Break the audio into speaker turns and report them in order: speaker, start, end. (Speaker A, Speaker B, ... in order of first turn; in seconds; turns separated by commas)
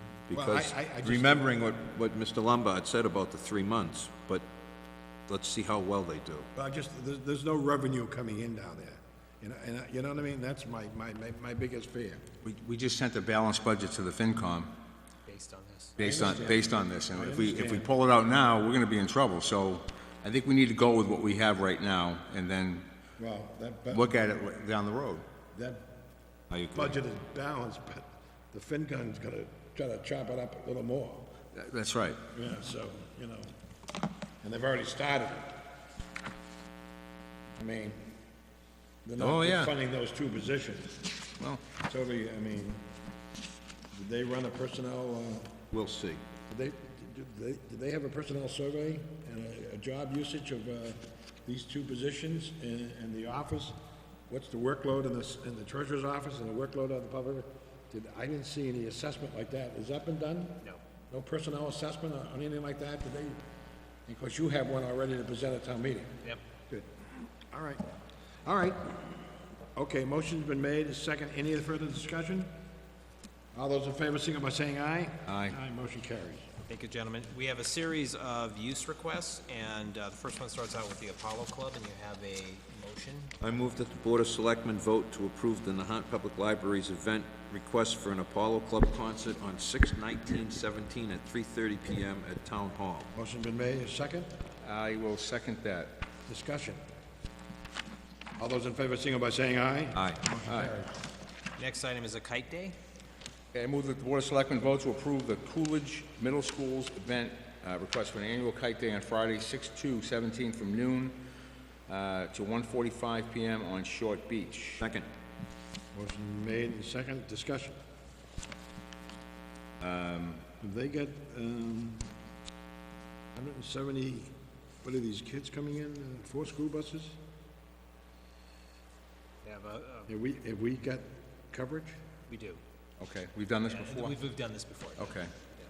Speaker A: 0.3-1.6, Speaker B: 0.3-4.5, Speaker B: 5.3-6.5, Speaker A: 6.5-12.3, Speaker C: 12.4-14.8, Speaker D: 15.3-15.9, Speaker C: 16.0-22.9, Speaker A: 16.0-17.9, Speaker A: 23.2-24.2, Speaker C: 23.9-25.3, Speaker A: 25.5-25.9, Speaker B: 26.5-27.0, Speaker A: 26.7-31.3, Speaker C: 31.6-32.2, Speaker A: 32.3-33.5, Speaker A: 34.4-35.6, Speaker A: 37.6-38.1, Speaker A: 39.0-41.2, Speaker C: 39.2-39.7, Speaker C: 41.4-41.6, Speaker A: 41.7-42.9, Speaker A: 43.9-45.6, Speaker B: 45.7-46.2, Speaker A: 46.5-53.8, Speaker A: 54.3-63.4, Speaker A: 64.1-66.2, Speaker A: 66.7-67.9, Speaker A: 68.5-72.5, Speaker A: 73.5-76.5, Speaker C: 75.3-75.6, Speaker D: 76.7-83.3, Speaker B: 83.4-93.1, Speaker A: 93.1-94.3, Speaker C: 94.6-96.0, Speaker A: 96.3-96.8, Speaker A: 98.4-101.0, Speaker B: 100.0-100.2, Speaker C: 100.5-100.7, Speaker D: 101.6-102.8, Speaker C: 103.5-111.2, Speaker C: 111.9-114.8, Speaker B: 114.8-115.1, Speaker A: 115.9-117.8, Speaker C: 119.8-120.5, Speaker A: 120.6-122.1, Speaker A: 123.3-127.2, Speaker D: 129.4-130.1, Speaker A: 130.1-132.0, Speaker D: 132.3-132.6, Speaker C: 133.0-134.2, Speaker D: 133.6-135.2, Speaker C: 135.0-135.3